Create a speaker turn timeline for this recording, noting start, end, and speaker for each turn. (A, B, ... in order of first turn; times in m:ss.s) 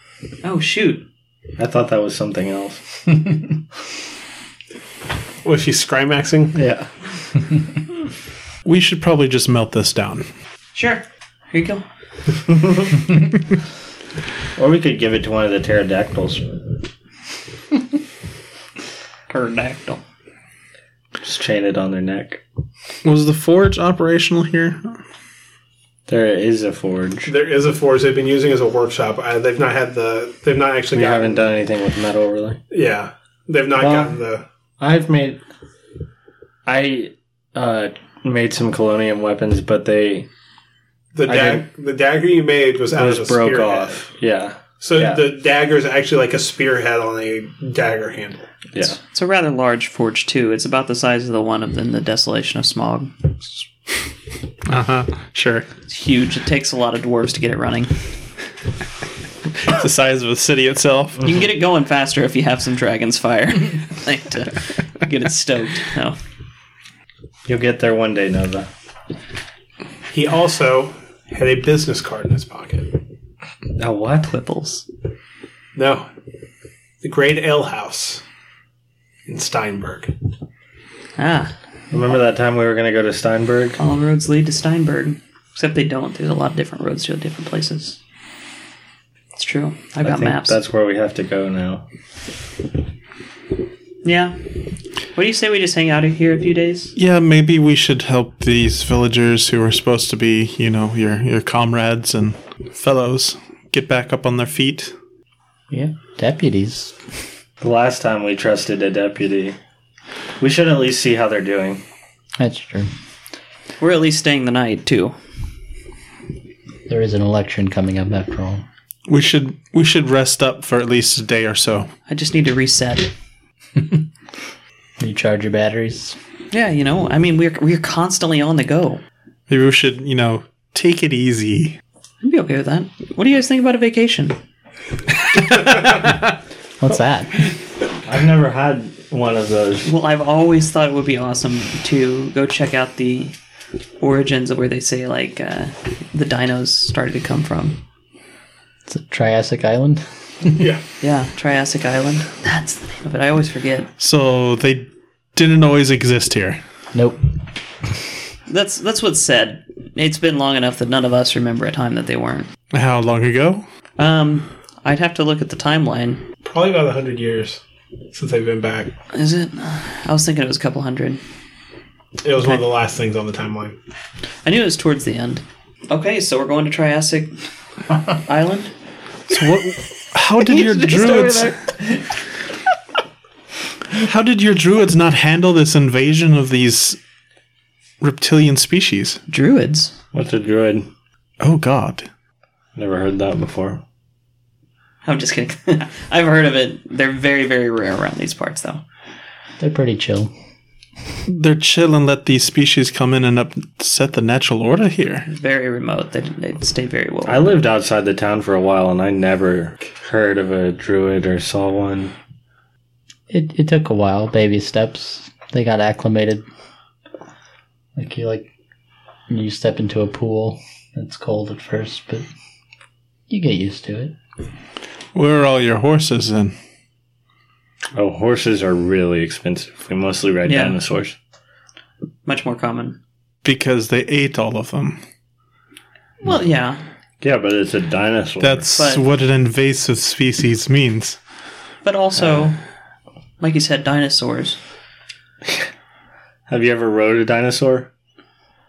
0:00.4-0:01.0 A
0:01.6-0:03.0 B
0:05.4-0:06.6 C
0:06.5-0:06.9 B
0:08.6-0:10.3 D
0:10.7-0:11.8 A
0:12.5-0:13.1 B
0:14.6-0:16.6 B
0:19.3-0:20.0 A
0:21.2-0:22.4 B
0:23.0-0:25.0 D
0:26.1-0:27.3 B
0:27.2-0:31.4 C
0:30.9-0:32.6 B
0:32.7-0:34.4 C
0:33.8-0:34.2 B
0:34.8-0:35.4 B
0:36.6-0:40.3 B
0:41.1-0:44.0 C
0:41.2-0:41.6 B
0:42.9-0:45.3 B
0:44.8-0:48.5 C
0:48.8-0:53.3 A
0:54.7-0:55.6 D
0:55.9-0:57.9 A
0:59.6-1:01.2 D
1:01.2-1:06.2 A
1:07.4-1:08.7 B
1:10.1-1:13.0 C
1:13.8-1:14.3 B
1:14.3-1:14.8 A
1:15.7-1:16.1 C
1:17.0-1:18.2 C
1:19.3-1:20.1 C
1:21.2-1:21.5 A
1:21.9-1:23.8 B
1:23.8-1:28.0 A
1:29.4-1:30.6 A
1:30.0-1:31.8 B
1:34.0-1:34.4 A
1:35.1-1:36.9 A
1:37.0-1:44.9 D
1:45.7-1:46.9 E
1:47.6-1:49.6 B
1:50.4-1:51.8 B
1:52.4-1:52.9 E
1:53.8-1:55.1 A
1:56.9-1:58.6 E
1:59.1-2:01.9 D
2:02.1-2:03.1 A
2:03.8-2:04.0 E
2:05.0-2:06.2 E
2:06.5-2:09.0 A
2:09.5-2:11.8 D
2:12.2-2:14.4 A
2:15.3-2:16.2 D
2:16.8-2:17.5 E
2:18.0-2:19.9 B
2:19.8-2:23.3 A
2:24.0-2:27.8 A
2:28.9-2:30.6 E
2:30.6-2:30.8 C
2:31.0-2:33.9 A
2:34.0-2:36.6 D
2:36.9-2:37.2 E
2:38.5-2:42.5 A
2:42.7-2:43.6 D
2:44.0-2:46.2 A
2:46.4-2:47.6 C
2:48.1-2:48.9 C
2:49.1-2:51.2 A
2:52.2-2:53.8 C
2:54.4-2:57.3 A
2:58.1-2:58.7 A
2:59.3-3:01.5 D
3:00.4-3:02.0 A
3:03.9-3:07.0 D
3:08.0-3:09.2 D
3:09.3-3:09.9 A
3:10.1-3:10.9 B
3:11.4-3:12.1 D
3:12.8-3:13.8 B
3:15.0-3:18.8 A
3:19.6-3:20.3 E
3:21.3-3:25.3 D
3:25.3-3:27.6 A
3:27.2-3:32.1 B
3:33.3-3:36.4 E
3:38.0-3:38.5 E
3:39.3-3:42.2 E
3:43.3-3:44.1 E
3:45.1-3:46.5 D
3:47.9-3:51.2 B
3:50.4-3:50.8 A
3:52.2-3:53.0 A
3:53.4-3:55.0 D
3:56.2-3:56.8 A
3:57.2-3:58.6 B
3:58.4-4:01.2 D
3:58.8-3:59.0 A
4:01.8-4:02.6 A
4:03.4-4:04.6 A
4:06.5-4:07.9 B